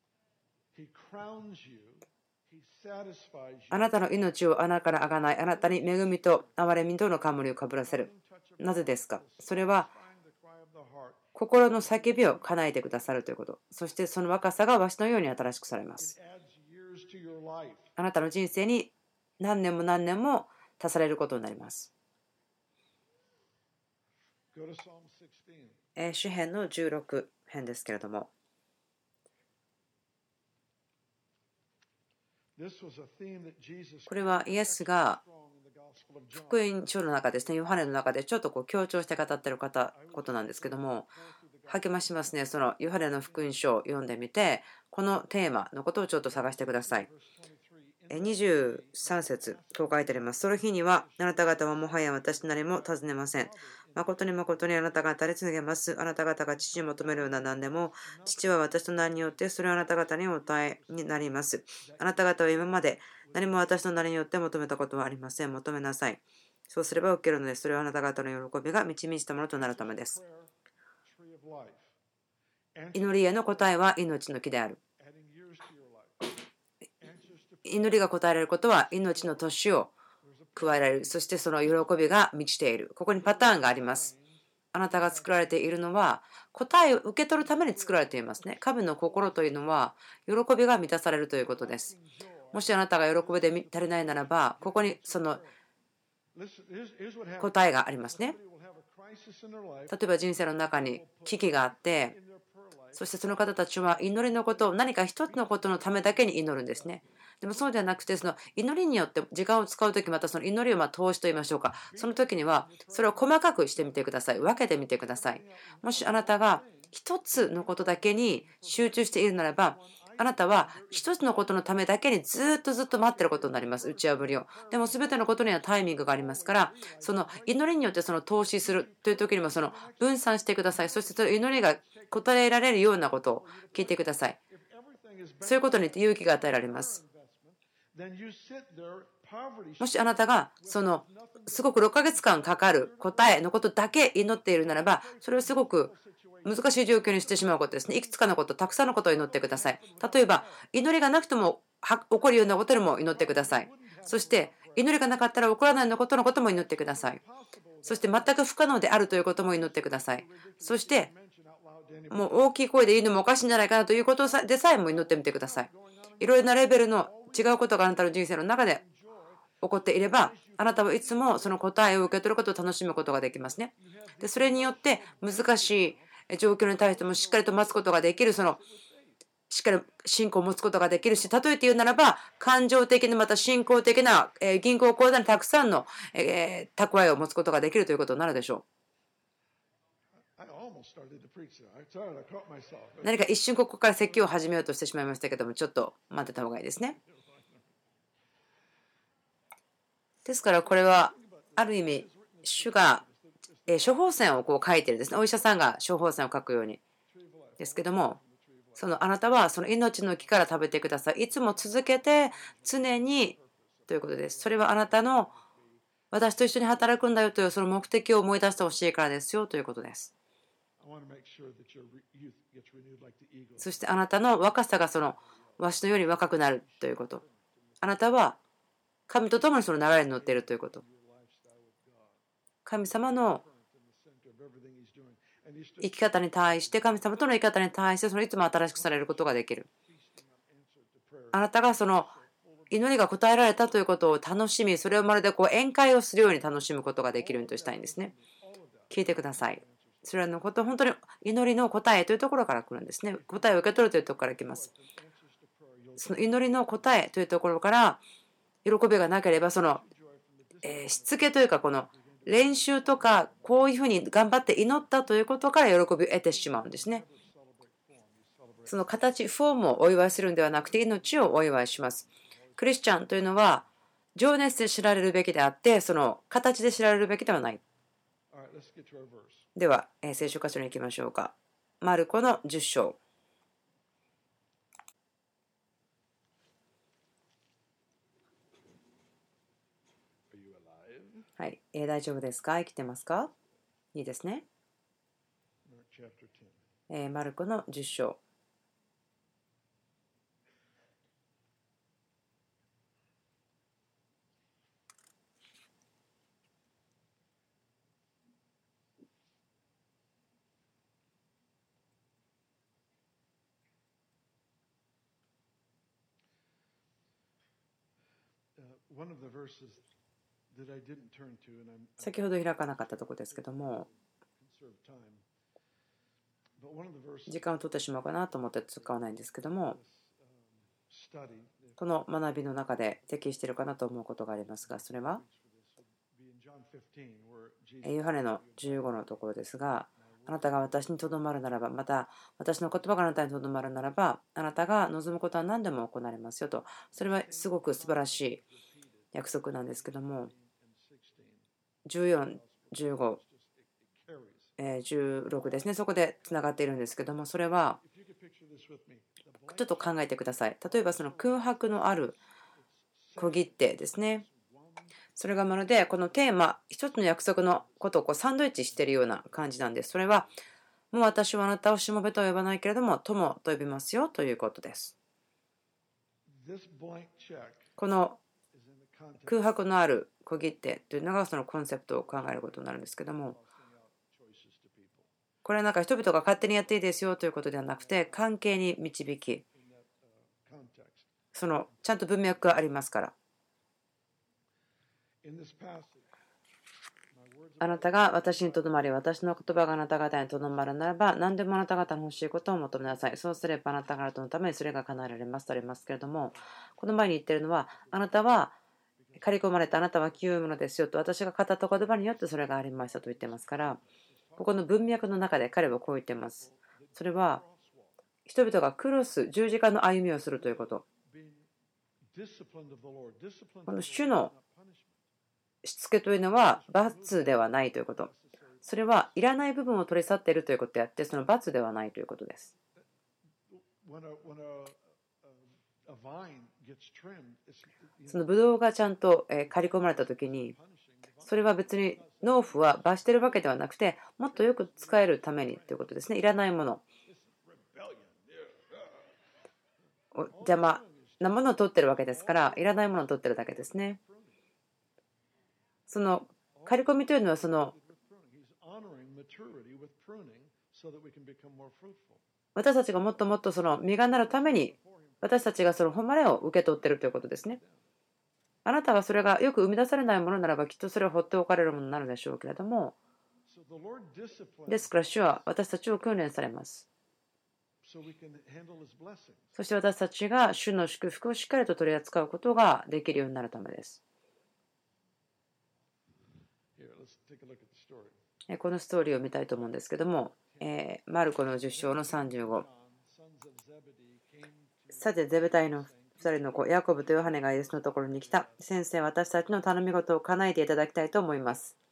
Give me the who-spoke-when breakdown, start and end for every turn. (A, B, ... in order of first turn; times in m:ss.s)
0:00.7-0:04.3 A
0:03.7-0:08.1 B
0:05.0-0:06.6 A
0:07.8-0:13.1 A
0:08.6-0:09.9 B
0:11.4-0:16.1 B
0:16.0-0:17.9 A
0:18.0-0:21.9 B
0:24.5-0:25.8 A
0:26.0-0:28.3 B
0:32.6-0:36.7 A
0:34.1-0:35.2 B
0:36.5-0:41.1 B
0:39.9-0:43.6 A
0:41.7-0:47.1 B
0:46.2-0:55.1 A
0:48.1-1:10.2 B
0:56.6-1:01.3 A
1:01.8-1:03.8 A
1:09.5-1:10.5 A
1:11.0-1:12.0 A
1:12.8-1:13.8 A
1:12.9-1:14.8 B
1:15.0-1:16.4 A
1:17.0-1:18.2 A
1:17.7-1:19.9 B
1:18.9-1:19.4 A
1:20.2-1:21.9 A
1:20.6-1:24.1 B
1:23.2-1:25.8 A
1:24.7-1:31.9 B
1:27.4-1:29.8 A
1:31.4-1:35.6 A
1:32.5-1:35.4 B
1:36.3-1:47.1 A
1:37.4-1:38.4 B
1:39.9-1:42.2 B
1:43.0-2:14.4 B
1:51.9-2:01.8 A
2:02.9-2:23.7 A
2:15.4-2:17.0 B
2:19.8-2:25.9 B
2:24.7-2:30.7 A
2:26.4-2:37.2 B
2:32.5-2:35.3 A
2:36.5-2:42.5 A
2:37.8-2:41.1 B
2:42.1-2:45.7 B
2:43.6-2:52.3 A
2:46.2-2:48.8 B
2:49.6-2:58.6 B
2:53.5-2:59.2 A
2:59.5-3:08.6 B
3:10.4-3:13.2 A
3:13.0-3:17.0 B
3:14.0-3:14.4 A
3:16.9-3:17.8 A
3:20.2-3:23.0 B
3:20.6-3:24.6 A
3:23.7-3:26.8 B
3:27.1-3:35.8 A
3:27.6-3:28.2 B
3:28.8-3:33.4 B
3:33.9-3:35.3 B
3:36.1-3:40.1 B
3:40.8-3:43.8 A
3:43.6-3:47.2 B
3:44.9-3:48.0 A
3:47.8-3:48.4 B
3:49.1-3:50.8 B
3:49.3-3:52.2 A
3:52.7-3:53.4 B
3:52.8-3:57.6 A
3:55.8-3:59.7 B
3:58.7-4:03.1 A
4:01.3-4:02.1 B
4:02.7-4:08.1 B
4:07.1-4:10.4 A
4:08.9-4:14.7 B
4:13.1-4:17.1 A
4:16.0-4:18.0 B
4:18.6-4:19.8 B
4:19.6-4:23.8 A
4:20.6-4:27.0 B
4:26.2-4:29.1 A
4:28.7-4:32.0 B
4:29.8-4:33.0 A
4:32.6-4:37.6 B
4:38.3-4:39.5 A
4:39.6-4:43.0 B
4:50.3-4:51.3 A
4:51.4-4:53.3 B
4:53.9-4:54.5 B
4:55.6-4:56.6 A
4:56.9-4:58.2 B
5:18.6-5:19.8 A
5:20.5-5:25.2 A
5:22.0-5:23.9 B
5:26.6-5:27.5 A
5:27.3-5:29.8 B
5:29.7-5:31.8 A
5:31.8-5:35.2 B
5:34.6-5:39.2 A
5:37.8-5:48.4 B
5:40.0-5:41.2 A
5:47.0-5:51.5 A
5:49.1-5:50.3 B
5:51.9-5:53.2 B
5:52.0-5:54.6 A
5:54.6-5:57.8 B
5:55.4-5:55.7 A
5:57.8-6:04.9 A
5:59.5-6:02.2 B
6:03.2-6:04.2 B
6:05.2-6:10.3 B
6:07.3-6:08.1 A
6:08.7-6:09.4 A
6:10.9-6:14.9 B
6:16.3-6:17.8 A
6:17.8-6:18.2 B
6:18.5-6:19.6 A
6:19.3-6:23.4 B
6:22.0-6:25.1 A
6:25.4-6:29.4 B
6:27.7-6:28.3 A
6:29.4-6:31.1 A
6:31.3-6:33.1 B
6:35.2-6:36.1 A
6:37.1-6:39.5 A
6:37.6-6:48.6 B
6:46.3-6:46.5 A
6:47.7-6:48.2 A
6:49.0-6:50.4 A
6:49.2-6:53.8 B
6:51.7-6:55.3 A
6:54.4-6:57.4 B
6:56.1-6:57.9 A
6:58.3-7:00.8 B
7:00.3-7:01.5 A
7:02.1-7:05.0 A
7:03.7-7:04.3 B
7:05.6-7:08.1 B
7:06.4-7:09.1 A
7:08.7-7:12.5 B
7:13.5-7:18.4 A
7:18.1-7:20.6 B
7:19.4-7:23.3 A
7:21.2-7:26.8 B
7:24.3-7:26.0 A
7:27.0-7:29.1 A
7:30.1-7:34.0 B
7:30.3-7:34.4 A
7:35.9-7:37.7 B
7:36.6-7:42.2 A
7:42.6-7:47.6 B
7:43.8-7:45.6 A
7:46.5-7:47.9 A
7:48.6-7:53.0 B
7:53.5-7:55.5 A
7:54.7-7:56.9 B
7:57.8-7:59.6 A
7:59.6-8:04.0 B
8:06.8-8:08.2 A
8:08.5-8:12.6 B
8:10.4-8:10.8 A
8:11.4-8:18.7 A
8:14.9-8:21.8 B